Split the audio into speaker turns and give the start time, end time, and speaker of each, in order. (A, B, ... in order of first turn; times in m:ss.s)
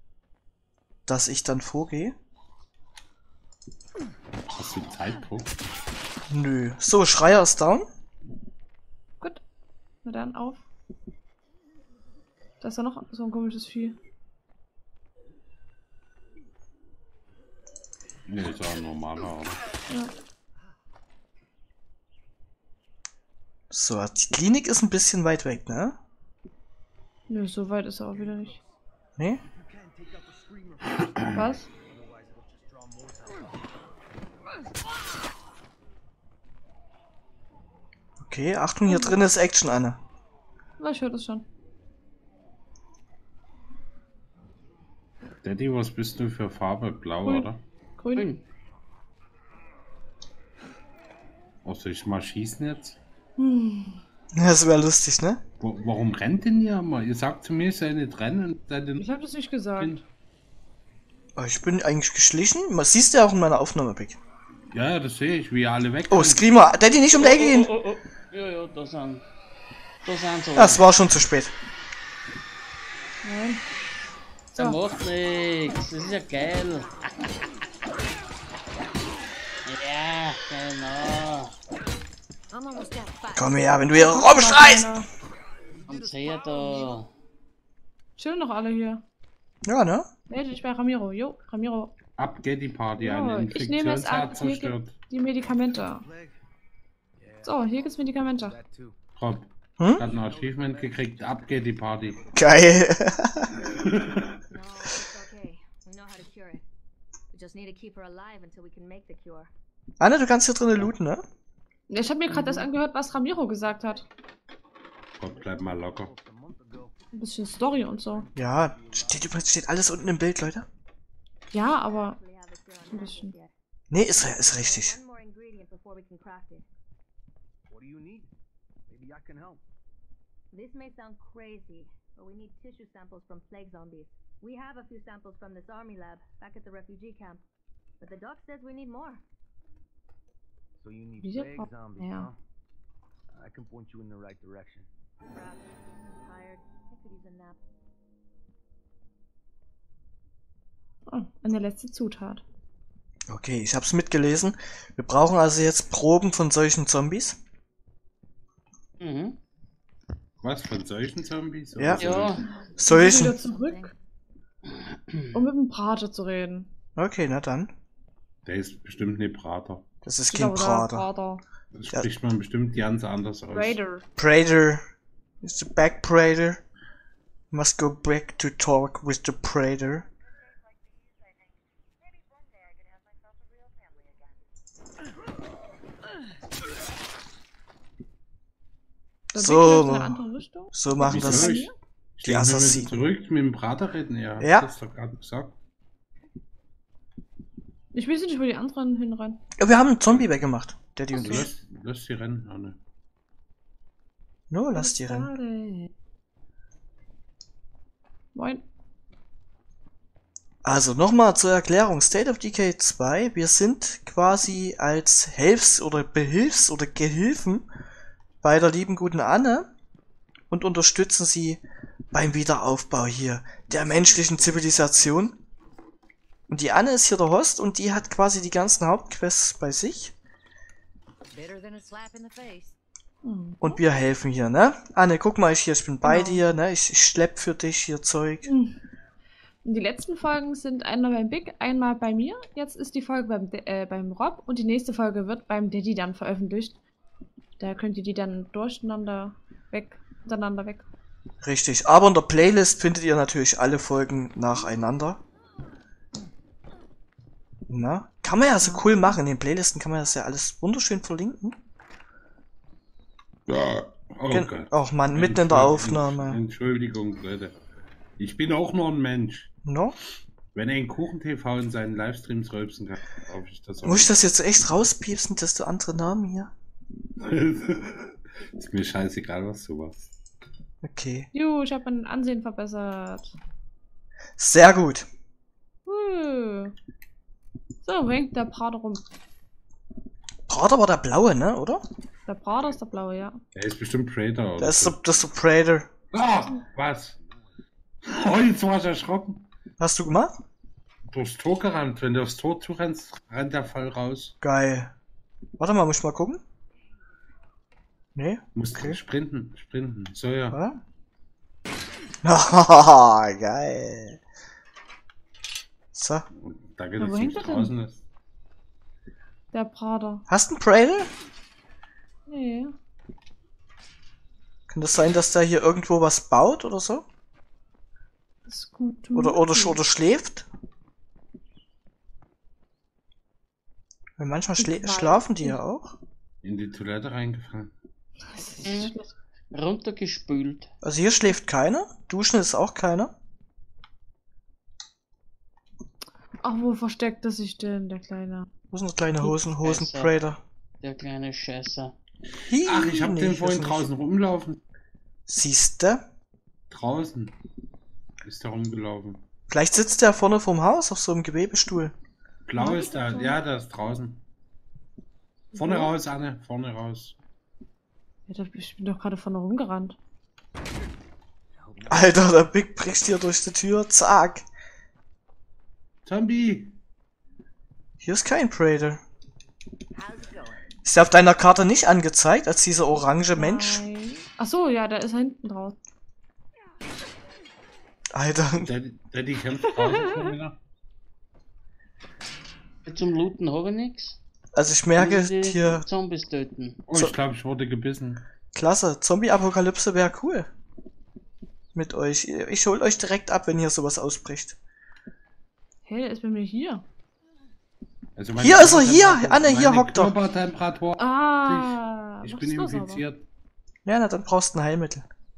0:01.1-0:02.1 A
0:04.4-0:05.5 B
0:06.3-0:07.8 A
0:10.0-0:10.6 C
0:12.6-0:14.0 C
0:18.3-0:19.6 B
0:23.7-0:26.0 A
0:27.3-0:28.6 C
0:28.1-0:28.7 D
0:29.4-0:33.6 D
0:31.3-0:31.7 C
0:38.2-0:40.0 A
0:38.9-0:39.2 C
0:40.8-0:41.4 C
0:45.4-0:47.6 B
0:47.2-0:48.3 C
0:48.1-0:48.4 E
0:51.6-0:53.0 B
0:53.4-0:54.0 C
0:54.3-0:55.4 A
0:55.6-0:59.0 B
0:59.0-1:00.0 C
0:59.8-1:00.0 B
1:01.4-1:04.2 A
1:04.7-1:06.5 B
1:06.1-1:07.7 A
1:07.0-1:09.2 E
1:10.0-1:10.8 E
1:10.5-1:11.5 A
1:13.2-1:13.6 C
1:14.5-1:17.0 E
1:14.5-1:14.8 C
1:19.6-1:21.5 E
1:22.5-1:23.6 F
1:23.3-1:25.0 A
1:23.9-1:25.1 C
1:25.9-1:27.1 E
1:25.9-1:26.7 F
1:28.2-1:29.0 C
1:29.6-1:30.1 A
1:30.3-1:31.9 C
1:32.2-1:35.0 B
1:33.0-1:36.0 C
1:36.0-1:36.4 D
1:37.2-1:39.0 D
1:37.4-1:38.6 C
1:39.2-1:42.2 B
1:39.8-1:40.1 A
1:40.0-1:42.9 D
1:42.3-1:43.6 A
1:44.5-1:46.6 G
1:47.3-1:49.5 G
1:50.0-1:51.2 A
1:51.9-1:54.0 C
1:55.2-1:56.1 B
1:55.3-1:56.9 D
1:57.1-1:58.2 C
1:57.7-2:00.2 D
1:58.4-2:00.6 A
2:01.5-2:02.2 C
2:01.7-2:03.5 G
2:02.9-2:03.3 C
2:03.9-2:05.0 A
2:04.1-2:06.6 G
2:07.7-2:08.3 D
2:08.9-2:09.6 D
2:10.5-2:17.4 G
2:18.0-2:19.2 G
2:20.8-2:22.4 D
2:21.2-2:22.3 C
2:23.3-2:24.9 D
2:25.3-2:27.6 G
2:31.1-2:32.4 C
2:33.3-2:37.4 A
2:39.0-2:39.4 E
2:40.4-2:42.4 B
2:41.7-2:42.1 A
2:42.0-2:42.4 E
2:42.8-2:43.4 A
2:42.9-2:43.9 C
2:44.7-2:45.4 E
2:45.3-2:46.7 C
2:47.0-2:47.7 A
2:48.4-2:49.8 B
2:50.0-2:51.1 A
2:50.3-2:51.4 C
2:51.7-2:53.8 B
2:53.5-2:54.0 C
2:54.2-2:54.9 A
2:55.4-2:56.6 A
2:57.5-3:00.1 A
3:03.3-3:03.9 G
3:09.3-3:10.2 A
3:09.3-3:11.7 C
3:10.7-3:11.5 A
3:11.0-3:15.6 B
3:12.2-3:13.0 A
3:14.4-3:14.7 A
3:17.9-3:19.4 C
3:19.6-3:21.5 A
3:21.1-3:21.5 C
3:21.1-3:22.8 B
3:24.5-3:25.3 A
3:24.7-3:25.9 C
3:28.3-3:28.6 C
3:30.6-3:37.7 A
3:38.4-3:39.7 A
3:40.5-3:45.4 A
3:43.8-3:45.2 F
3:46.5-3:50.1 A
3:51.3-3:52.8 F
3:53.2-3:53.8 C
3:53.6-3:58.5 A
3:56.0-3:56.4 C
3:58.4-3:58.8 C
3:59.6-4:06.8 C
4:07.6-4:10.8 C
4:11.4-4:15.2 A
4:17.7-4:21.5 A
4:18.6-4:19.1 C
4:23.5-4:27.6 B
4:24.3-4:26.4 A
4:28.2-4:29.5 B
4:29.6-4:30.0 A
4:30.5-4:34.1 B
4:33.8-4:36.5 A
4:37.2-4:40.1 B
4:40.8-4:41.3 A
4:41.3-4:43.3 C
4:44.4-4:45.0 A
4:45.8-4:46.7 C
4:47.8-4:49.0 C
4:50.5-4:51.8 A
4:52.2-4:53.4 C
4:53.5-4:55.0 B
4:54.6-4:55.9 A
4:56.1-4:57.2 B
4:58.0-4:59.5 B
4:59.8-5:00.3 A
5:01.1-5:04.3 B
5:04.4-5:04.9 A
5:05.6-5:06.4 A
5:08.2-5:09.0 A
5:08.5-5:10.6 B
5:10.5-5:10.8 A
5:12.2-5:14.2 A
5:15.9-5:16.2 A
5:16.4-5:18.0 B
5:17.0-5:17.7 C
5:19.5-5:20.2 C
5:20.3-5:21.1 A
5:22.3-5:22.7 C
5:24.7-5:27.0 A
5:28.5-5:29.8 C
5:29.1-5:30.5 A
5:34.2-5:36.0 A
5:34.6-5:35.6 C
5:36.4-5:37.7 B
5:38.3-5:39.2 C
5:38.6-5:38.9 E
5:39.5-5:40.7 E
5:40.8-5:43.1 A
5:46.4-5:48.5 C
5:48.7-5:50.4 A
5:49.2-5:50.3 E
5:50.8-5:51.9 E
5:52.5-5:53.9 A
5:52.6-5:54.6 B
5:55.3-5:56.0 A
5:56.7-5:57.3 B
5:58.2-5:59.2 B
5:59.5-6:01.9 A
6:02.4-6:04.2 B
6:02.6-6:03.4 C
6:05.5-6:05.9 C
6:05.5-6:07.2 B
6:08.3-6:10.0 C
6:11.6-6:12.3 F
6:11.9-6:14.4 A
6:16.0-6:16.7 B
6:18.0-6:19.0 A
6:19.9-6:20.7 F
6:20.8-6:23.8 A
6:23.3-6:25.8 C
6:28.1-6:28.7 A
6:28.5-6:30.6 B
6:32.8-6:34.2 E
6:34.5-6:35.8 A
6:34.9-6:36.8 E
6:36.9-6:38.2 B
6:38.5-6:40.5 A
6:41.7-6:44.6 A
6:45.8-6:46.8 C
6:48.2-6:53.2 B
6:48.4-6:50.2 A
6:51.0-6:53.0 C
6:53.8-6:55.0 A